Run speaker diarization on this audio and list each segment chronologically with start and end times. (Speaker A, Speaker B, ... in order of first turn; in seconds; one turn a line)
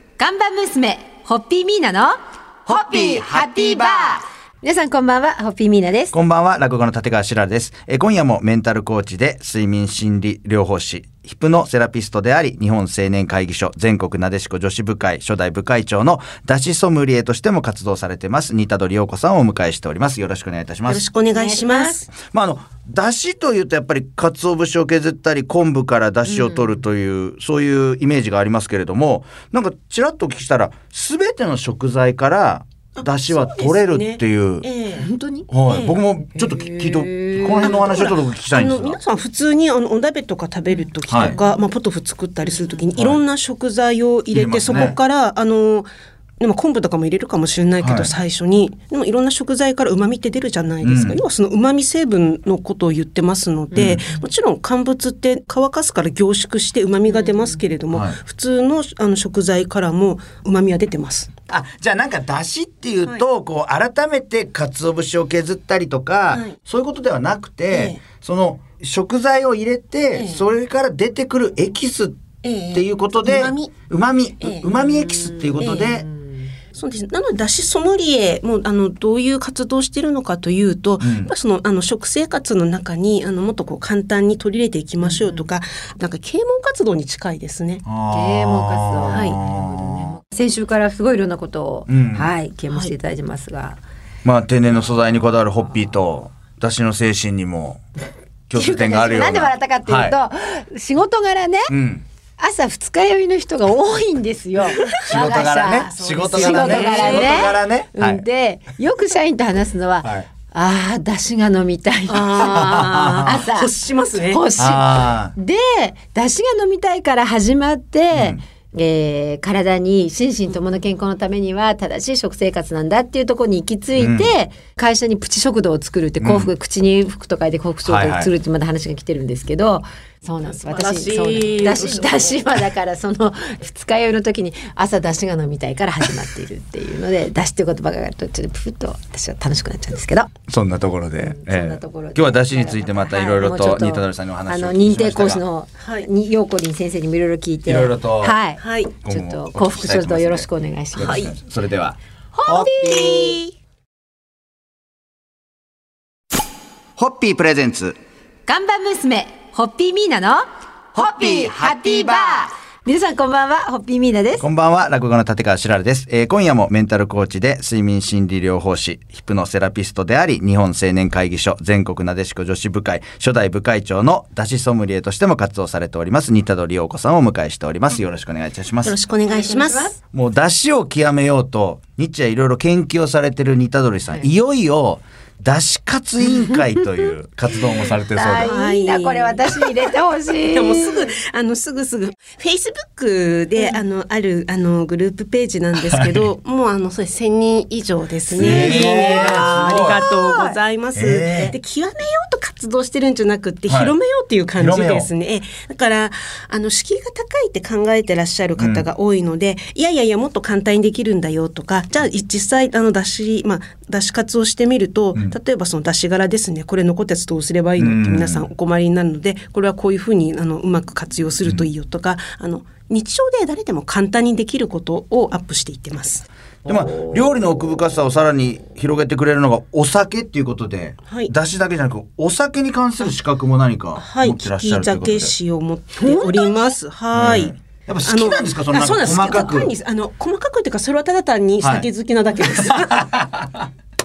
Speaker A: 0.2-6.1
Speaker B: 2.9-3.9
Speaker B: 6.1-21.1
Speaker C: 20.9-22.1
Speaker A: 21.3-22.0
Speaker B: 22.2-34.7
Speaker A: 26.3-26.6
Speaker C: 33.0-35.1
Speaker A: 35.0-35.5
Speaker B: 35.5-39.0
Speaker C: 35.7-36.0
Speaker A: 36.3-38.0
Speaker C: 37.6-45.9
Speaker B: 41.1-41.4
Speaker A: 41.3-41.6
Speaker B: 44.3-44.9
Speaker C: 46.4-61.3
Speaker B: 47.8-48.1
Speaker B: 50.8-51.2
Speaker B: 53.7-54.0
Speaker A: 57.1-57.5
Speaker B: 57.9-58.2
Speaker B: 61.5-76.0
Speaker C: 67.7-68.0
Speaker C: 70.1-70.4
Speaker C: 72.4-73.7
Speaker C: 74.4-74.7
Speaker A: 74.8-76.5
Speaker C: 75.6-76.0
Speaker C: 76.7-87.8
Speaker B: 81.0-81.3
Speaker A: 85.0-85.4
Speaker B: 87.8-90.1
Speaker A: 88.1-93.8
Speaker C: 89.1-89.4
Speaker B: 91.9-92.3
Speaker C: 92.7-92.9
Speaker B: 94.2-97.8
Speaker B: 98.5-100.1
Speaker A: 98.5-101.7
Speaker B: 101.7-102.0
Speaker A: 102.4-113.7
Speaker C: 104.9-105.2
Speaker B: 105.0-108.2
Speaker C: 105.7-107.6
Speaker C: 112.1-114.4
Speaker B: 112.5-113.4
Speaker A: 114.3-140.3
Speaker B: 114.5-115.3
Speaker B: 118.1-118.4
Speaker B: 124.0-124.3
Speaker B: 126.2-126.5
Speaker B: 127.8-128.3
Speaker C: 130.4-132.6
Speaker B: 140.5-145.4
Speaker A: 141.2-151.3
Speaker C: 145.8-146.1
Speaker B: 147.7-148.4
Speaker C: 148.6-148.9
Speaker B: 149.0-152.9
Speaker C: 151.0-151.3
Speaker A: 152.3-153.4
Speaker C: 152.7-153.5
Speaker B: 157.0-157.9
Speaker A: 158.4-160.4
Speaker A: 160.9-164.4
Speaker B: 160.9-162.4
Speaker B: 164.4-178.9
Speaker C: 178.8-179.9
Speaker A: 179.3-180.0
Speaker B: 180.1-188.6
Speaker A: 187.8-191.1
Speaker C: 188.3-189.8
Speaker C: 190.5-226.2
Speaker B: 198.3-200.2
Speaker A: 198.9-199.3
Speaker B: 200.9-201.5
Speaker B: 203.7-203.9
Speaker B: 204.6-205.1
Speaker B: 208.6-208.8
Speaker B: 217.8-218.5
Speaker A: 226.7-227.6
Speaker B: 226.7-235.3
Speaker C: 231.1-231.3
Speaker C: 233.9-243.0
Speaker A: 236.0-236.6
Speaker B: 237.1-239.7
Speaker B: 241.6-241.9
Speaker B: 242.6-243.7